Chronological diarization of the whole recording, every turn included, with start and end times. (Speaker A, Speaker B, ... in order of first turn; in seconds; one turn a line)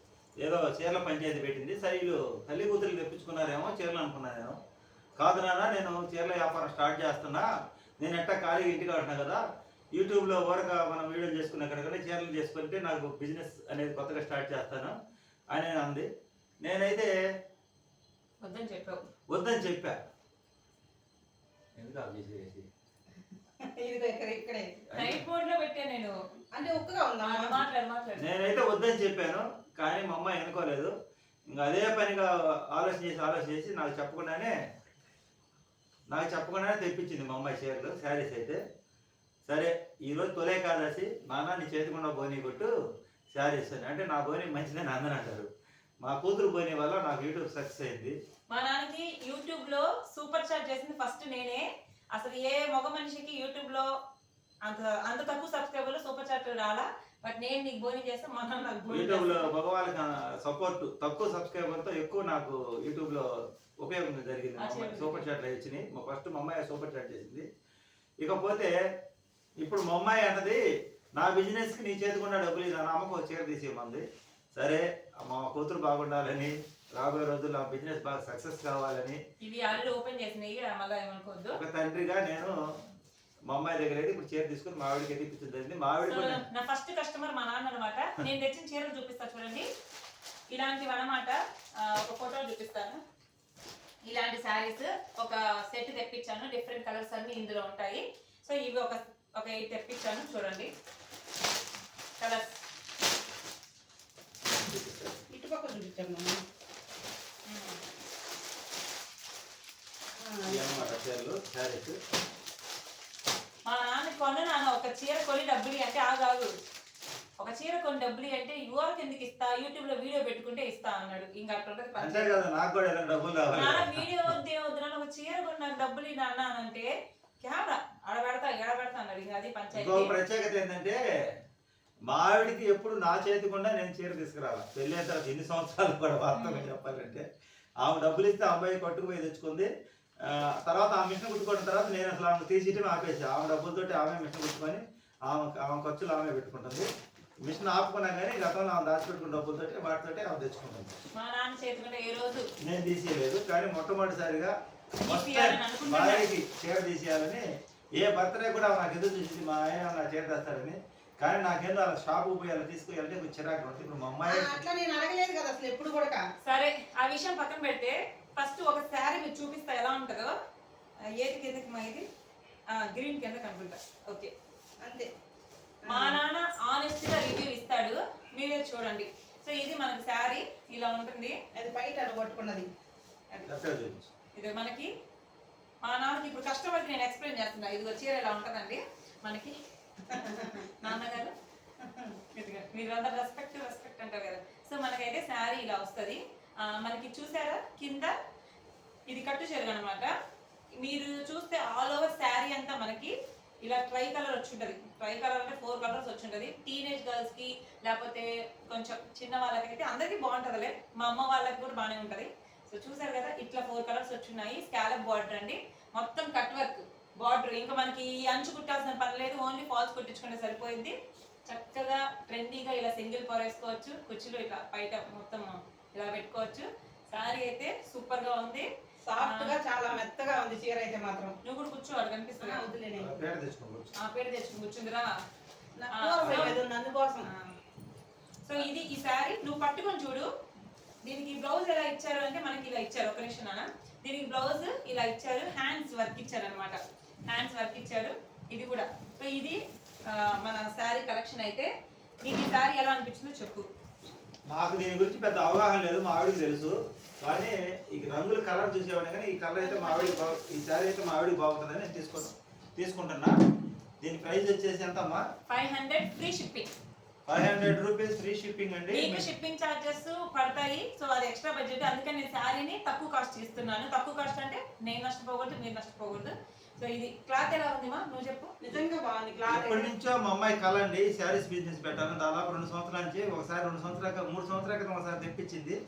Speaker A: 0.4-4.5
Speaker A: 5.2-7.5
Speaker A: 8.0-9.4
Speaker A: 9.9-14.9
Speaker A: 15.5-16.1
Speaker A: 16.6-17.1
Speaker B: 18.4-19.0
Speaker A: 19.3-20.0
Speaker A: 21.8-22.7
Speaker C: 23.6-24.8
Speaker A: 24.9-25.2
Speaker B: 25.0-26.1
Speaker C: 26.5-27.6
Speaker B: 27.2-28.3
Speaker A: 28.2-30.9
Speaker A: 31.5-34.5
Speaker A: 36.1-38.6
Speaker A: 39.5-42.7
Speaker A: 43.3-45.5
Speaker A: 46.0-48.1
Speaker B: 48.5-53.9
Speaker B: 54.6-59.5
Speaker A: 58.9-63.2
Speaker A: 63.8-67.5
Speaker B: 64.6-65.3
Speaker A: 68.2-68.7
Speaker A: 69.6-70.6
Speaker A: 71.2-79.2
Speaker B: 79.4-81.6
Speaker A: 81.5-82.5
Speaker A: 83.5-86.4
Speaker B: 86.0-89.7
Speaker B: 90.5-93.0
Speaker B: 94.0-100.7
Speaker B: 102.2-102.5
Speaker A: 104.5-105.2
Speaker C: 105.3-106.4
Speaker B: 107.5-107.8
Speaker C: 110.2-110.9
Speaker A: 110.5-112.0
Speaker B: 113.7-116.5
Speaker B: 117.4-122.4
Speaker A: 122.0-124.0
Speaker B: 123.5-126.9
Speaker B: 127.4-130.1
Speaker A: 129.7-131.0
Speaker A: 132.1-137.2
Speaker B: 136.3-136.7
Speaker A: 137.8-139.7
Speaker A: 140.2-146.9
Speaker A: 147.4-150.9
Speaker B: 151.1-152.5
Speaker A: 152.6-154.5
Speaker B: 155.0-156.3
Speaker A: 155.0-157.4
Speaker A: 157.9-164.6
Speaker C: 164.2-166.2
Speaker B: 166.4-170.3
Speaker B: 171.1-172.1
Speaker B: 172.7-174.3
Speaker C: 174.8-175.1
Speaker C: 175.8-176.2
Speaker B: 175.9-181.3
Speaker C: 181.5-182.7
Speaker A: 183.4-184.1
Speaker B: 184.3-184.9
Speaker B: 185.8-189.6
Speaker C: 190.1-190.9
Speaker B: 190.1-191.3
Speaker C: 191.8-192.1
Speaker B: 192.3-198.1
Speaker B: 199.1-200.1
Speaker B: 200.8-220.9
Speaker B: 221.4-229.6
Speaker C: 229.0-231.3
Speaker B: 231.4-232.7
Speaker C: 232.4-233.2
Speaker A: 233.0-233.9
Speaker B: 234.0-235.1
Speaker C: 235.8-237.3
Speaker B: 235.9-236.6
Speaker A: 236.2-236.6
Speaker B: 237.2-237.5
Speaker B: 238.4-240.3
Speaker B: 241.0-251.7
Speaker B: 252.2-253.7
Speaker A: 254.4-263.4
Speaker B: 259.6-260.3
Speaker A: 264.0-265.2
Speaker B: 265.5-266.7
Speaker A: 267.3-269.3
Speaker B: 268.9-278.6
Speaker C: 278.6-279.9
Speaker A: 279.4-285.8